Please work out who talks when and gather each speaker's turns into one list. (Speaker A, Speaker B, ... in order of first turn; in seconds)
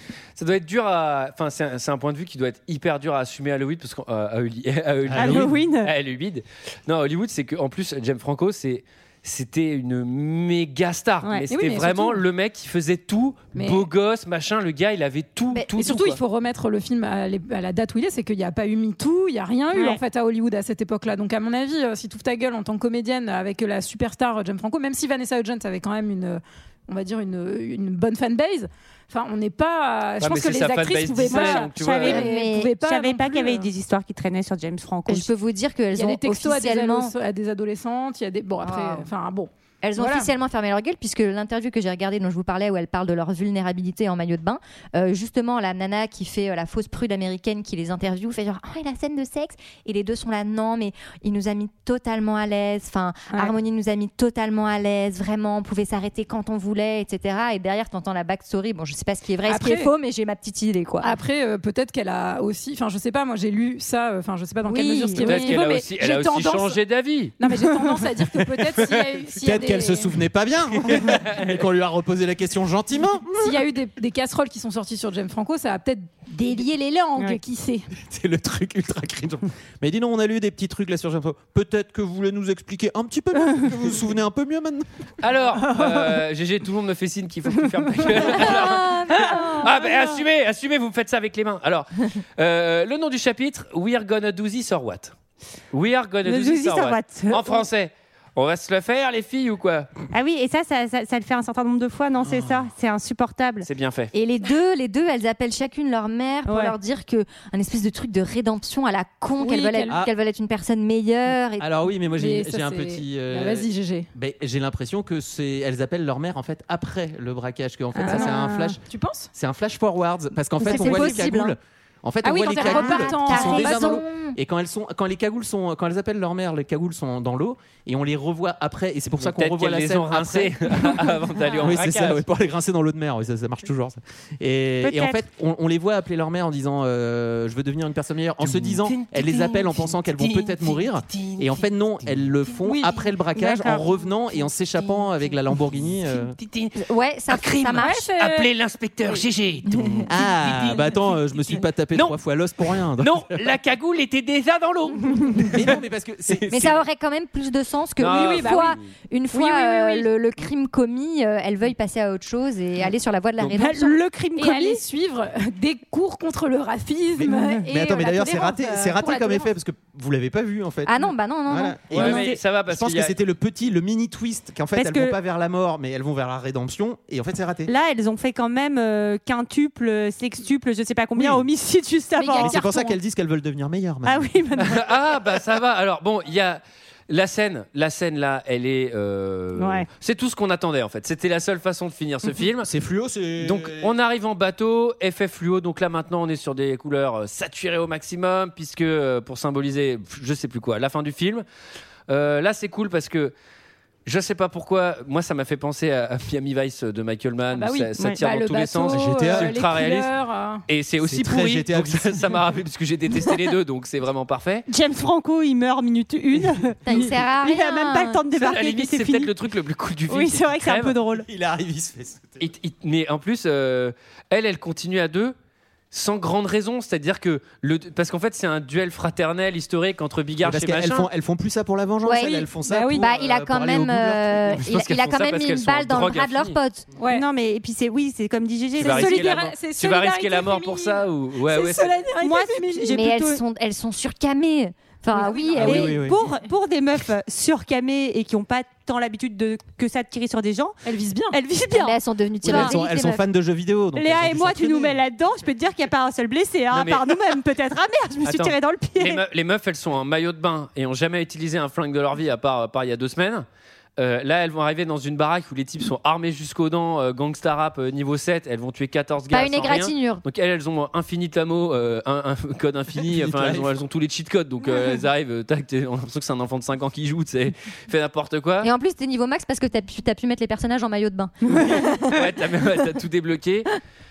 Speaker A: 0.3-16.2, 30.2-32.2, 65.2-67.3, 68.9-69.2, 70.8-71.5, 85.2-95.1, 95.7-99.9, 103.6-104.1, 129.2-132.2, 138.4-142.6, 144.8-146.8, 147.3-152.2, 153.0-155.6, 156.3-156.8, 158.0-158.9, 171.9-173.2, 184.6-192.7, 193.4-201.4, 202.1-203.3, 204.1-210.1, 210.7-214.7, 218.3-220.9, 222.4-225.3, 225.9-231.1, 234.5-236.6, 238.8-241.9, 256.7-257.2, 258.2-263.4, 264.0-278.7, 281.6-283.7
Speaker B: 5.1-5.5, 69.4-73.6, 78.0-84.8, 102.2-102.7, 111.6-118.8, 119.3-146.3, 150.1-153.5, 155.4-156.7, 167.7-177.7, 181.1-181.5, 182.4-184.3, 192.6-193.9, 208.9-209.5, 211.0-212.4, 221.1-222.4, 230.4-234.6, 245.5-246.2, 252.4-255.0, 273.1-273.8
Speaker C: 5.1-5.9, 19.7-20.0, 31.3-35.3, 96.2-97.7, 100.1-103.7, 106.5-106.7, 118.0-118.6, 134.8-135.2, 143.3-143.9, 163.4-164.8, 167.2-167.6, 171.9-172.4, 174.8-175.2, 177.7-182.7, 184.1-184.8, 189.6-189.9, 214.7-219.3, 220.1-221.3, 237.0-239.4, 242.2-243.4, 245.6-250.8, 251.3-252.8, 253.9-259.2
Speaker D: 11.5-12.2, 13.5-13.9, 15.8-33.7, 35.9-40.3, 59.5-59.9, 61.0-66.8, 67.4-70.2, 73.4-77.9, 109.4-110.0, 112.1-114.1, 118.0-119.3, 120.7-121.2, 122.2-124.0, 142.6-143.0, 147.8-148.5, 158.1-158.8, 159.3-160.1, 164.3-169.5, 182.2-183.0, 207.5-210.6, 232.2-233.0, 237.0-237.2, 238.8-243.0, 245.1-245.8, 250.8-251.4
Speaker E: 15.5-15.9, 32.0-32.7, 35.1-37.1, 38.6-39.1, 39.8-61.1, 64.6-65.5, 88.3-89.7, 104.1-111.7, 120.6-121.6, 122.6-124.4, 146.8-148.1, 156.5-164.0, 170.8-172.0, 216.8-218.2, 232.0-236.9, 242.9-246.0, 251.7-253.2, 269.3-270.2, 278.6-282.2